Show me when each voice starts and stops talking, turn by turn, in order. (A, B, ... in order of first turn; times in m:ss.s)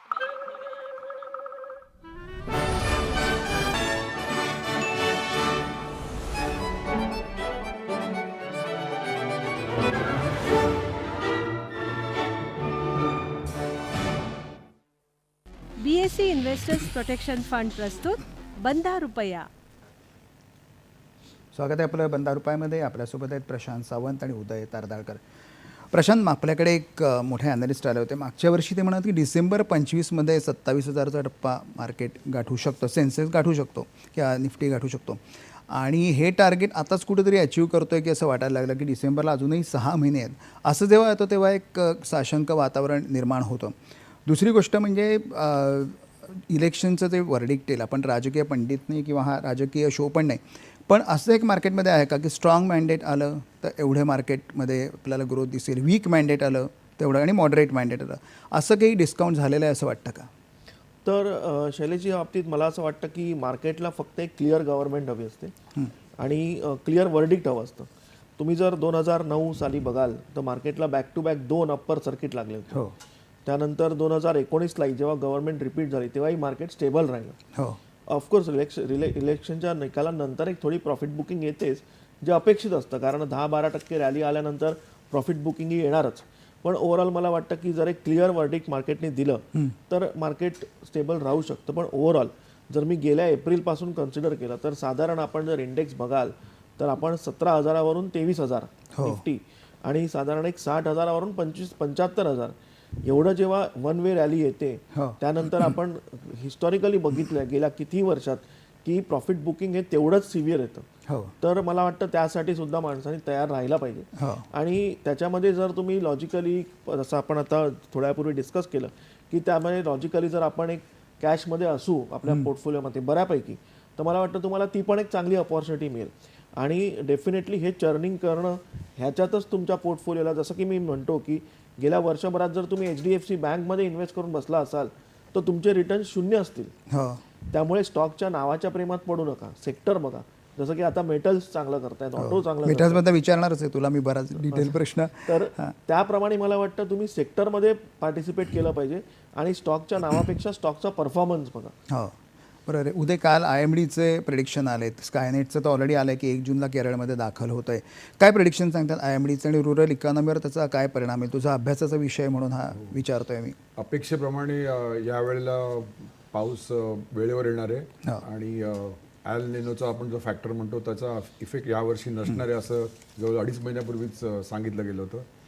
0:15.8-0:19.5 A
0:21.5-0:25.2 B
0:25.9-1:00.3 B
1:01.0-1:05.5 C
1:06.2-1:12.8 C
1:13.4-1:17.4 C
1:17.5-1:17.8 B
1:18.1-1:50.9 C
1:39.0-1:39.2 B
1:44.9-1:45.8 B
1:51.1-1:51.3 B
1:51.4-2:16.7 C
1:54.2-1:54.5 B
2:16.9-2:17.2 B
2:17.5-2:23.0 C
2:22.2-2:25.8 B
2:24.5-2:31.8 C
2:31.9-2:43.6 B
2:43.8-2:55.2 D